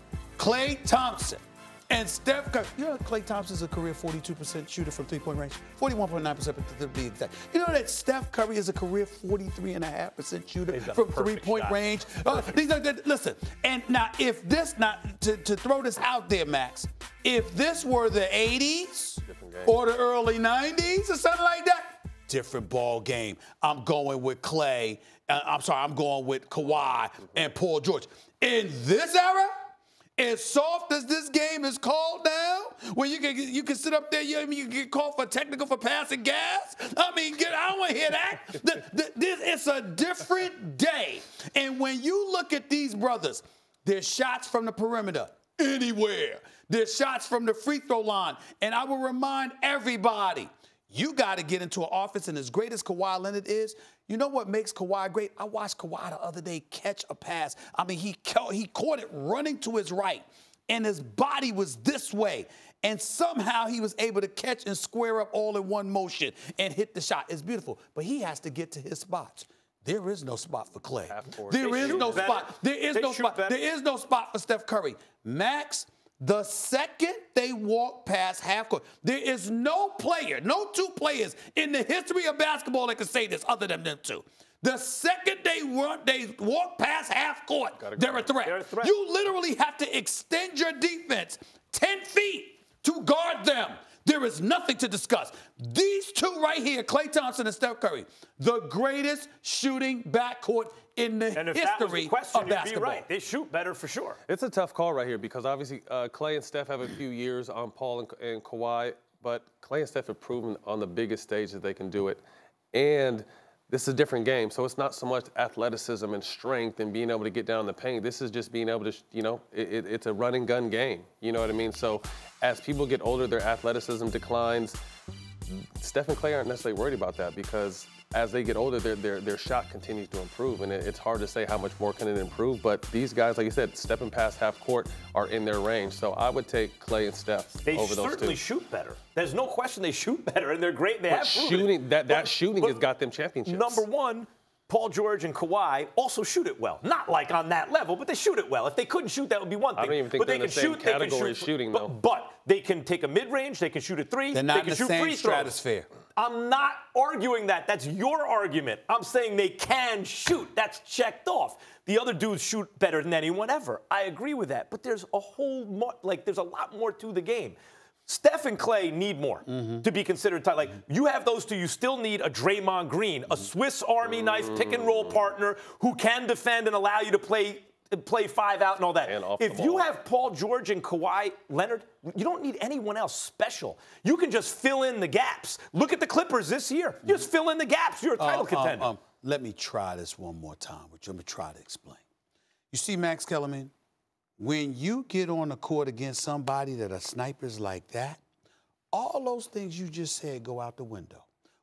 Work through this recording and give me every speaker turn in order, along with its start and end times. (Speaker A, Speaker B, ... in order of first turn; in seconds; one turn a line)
Speaker A: 0.4-29.5
Speaker B: 10.7-12.6
Speaker C: 19.2-19.8
Speaker A: 30.2-103.0
Speaker C: 71.1-72.4
Speaker B: 71.6-73.6
Speaker C: 87.8-88.3
Speaker B: 88.4-88.9
Speaker B: 101.3-104.2
Speaker C: 104.3-112.2
Speaker C: 112.7-124.8
Speaker C: 125.5-138.4
Speaker B: 137.6-142.8
Speaker C: 141.1-143.8
Speaker B: 143.4-155.5
Speaker C: 149.7-151.9
Speaker A: 154.3-155.9
Speaker B: 156.2-188.9
Speaker A: 169.5-169.8
Speaker C: 174.1-175.2
Speaker C: 179.0-179.9
Speaker A: 188.2-192.0
Speaker A: 192.7-193.7
Speaker A: 194.4-198.2
Speaker A: 198.9-201.3